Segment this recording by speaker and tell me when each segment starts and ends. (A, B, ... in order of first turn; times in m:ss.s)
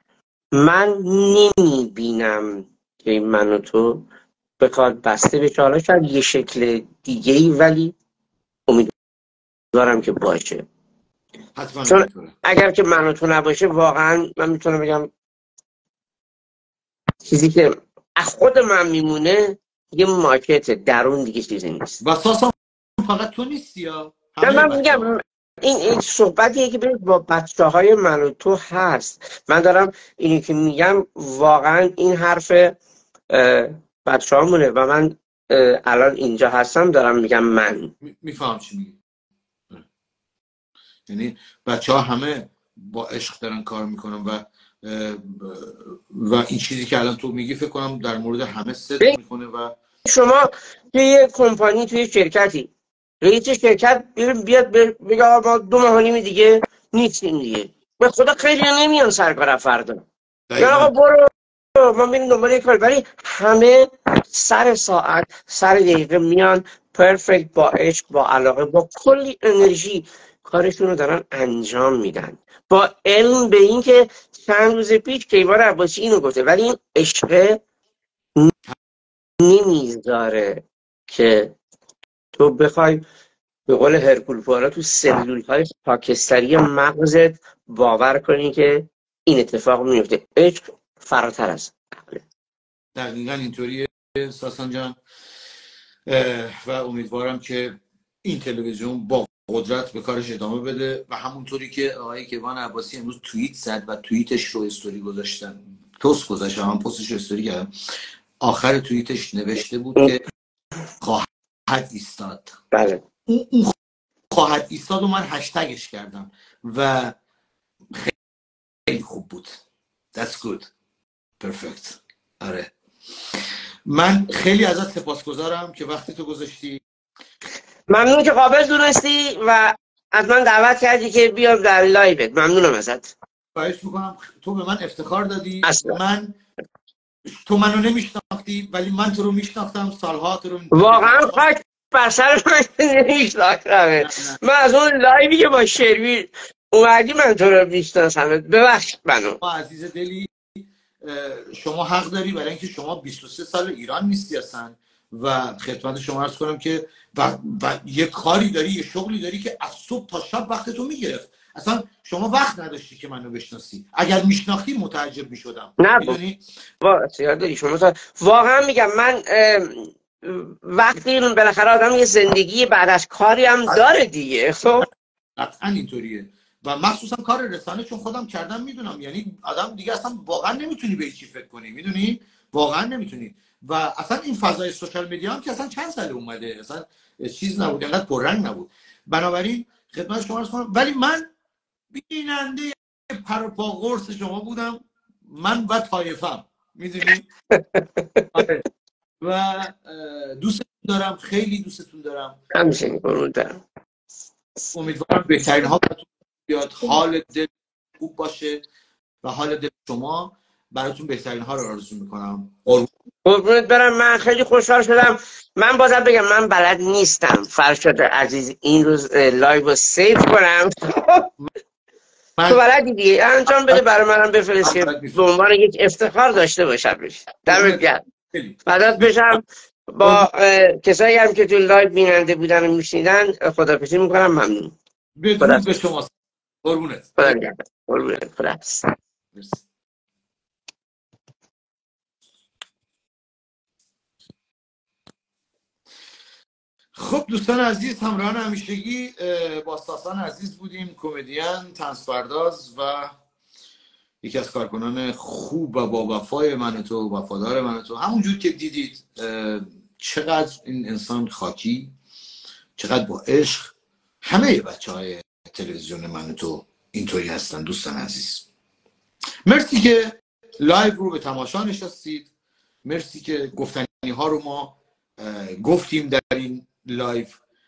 0:00.6-0:04.0 A
0:04.6-0:08.0 A
0:08.7-0:08.9 A
0:09.7-0:10.6 A
0:11.6-0:12.4 B
0:11.9-0:15.1 A
0:17.2-0:22.0 A
0:22.0-0:25.1 B
0:24.4-0:32.8 A
0:33.3-0:37.9 A
0:38.0-0:39.0 B
0:41.1-0:49.8 B
0:50.0-0:52.7 A
0:53.2-1:00.0 A
1:00.5-1:00.9 B
1:00.6-1:17.6 A
1:19.4-1:21.6 A
1:22.4-1:23.0 A
1:23.7-1:32.2 A
1:33.0-1:35.0 B
1:36.1-1:47.7 B
1:48.4-1:50.2 B
1:51.0-1:52.6 B
1:52.7-1:53.0 A
1:53.3-1:53.8 B
1:54.3-1:57.2 B
1:57.9-1:58.2 B
1:58.9-1:59.6 B
2:00.1-2:00.7 B
2:01.4-2:06.8 B
2:07.9-2:13.2 A
2:13.6-2:16.4 B
2:15.6-2:16.0 A
2:17.3-2:21.4 B
2:20.7-2:29.4 A
2:24.0-2:24.4 B
2:29.4-2:46.4 B
2:45.8-2:46.2 A
2:46.8-2:54.9 A
2:55.4-3:11.3 B
3:11.9-3:17.3 B
3:17.5-3:18.5 A
3:18.3-3:18.6 B
3:19.2-3:22.4 B
3:22.5-3:23.6 A
3:24.7-3:28.6 B
3:29.2-3:32.9 B
3:33.2-3:41.3 A
3:42.5-3:48.0 A
3:43.5-3:43.8 B
3:44.6-3:45.2 B
3:47.5-3:49.4 B
3:48.7-3:54.8 A
3:55.2-3:56.1 B
3:55.4-3:55.7 A
3:56.6-3:57.4 B
3:57.2-3:58.9 A
3:59.3-3:59.6 B
4:07.0-4:13.2 B
4:14.2-4:21.9 B
4:22.8-4:28.5 B
4:29.5-4:32.3 B
4:32.8-4:37.4 B